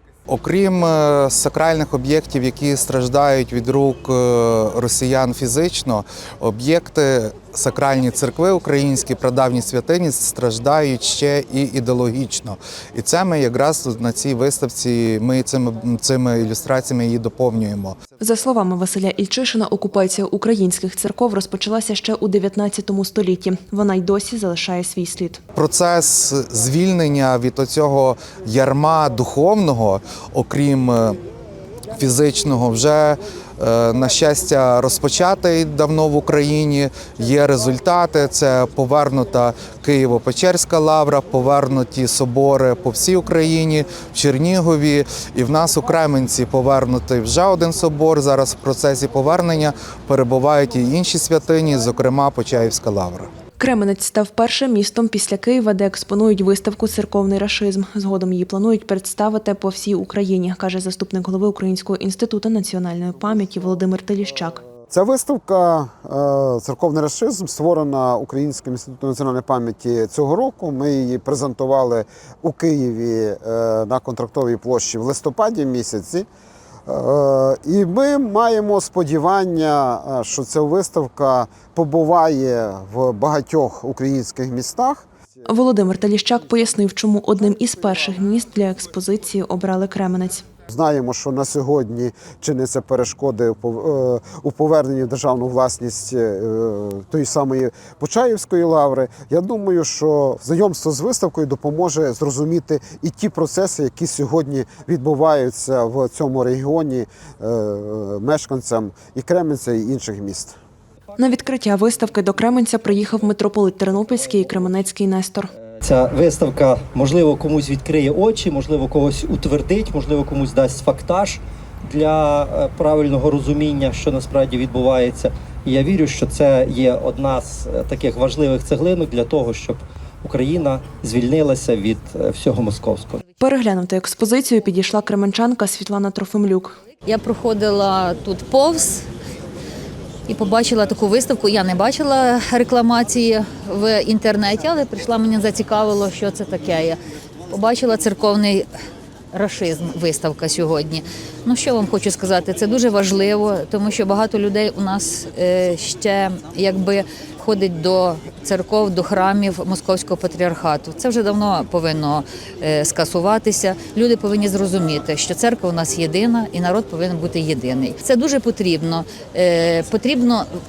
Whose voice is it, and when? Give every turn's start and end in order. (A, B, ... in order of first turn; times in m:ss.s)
0:00.3-0:18.0 A
0:18.2-0:25.4 B
0:25.6-0:31.2 A
0:31.9-0:53.3 A
0:53.6-1:04.6 B
1:04.9-1:16.3 C
1:16.9-1:25.1 C
1:25.5-1:30.5 B
1:30.7-1:50.6 C
1:51.2-1:55.5 B
1:51.4-1:53.2 D
1:54.0-1:54.8 D
1:55.5-2:13.3 D
2:13.4-2:16.8 B
2:17.0-2:19.1 E
2:20.3-2:28.7 E
2:29.3-2:50.5 E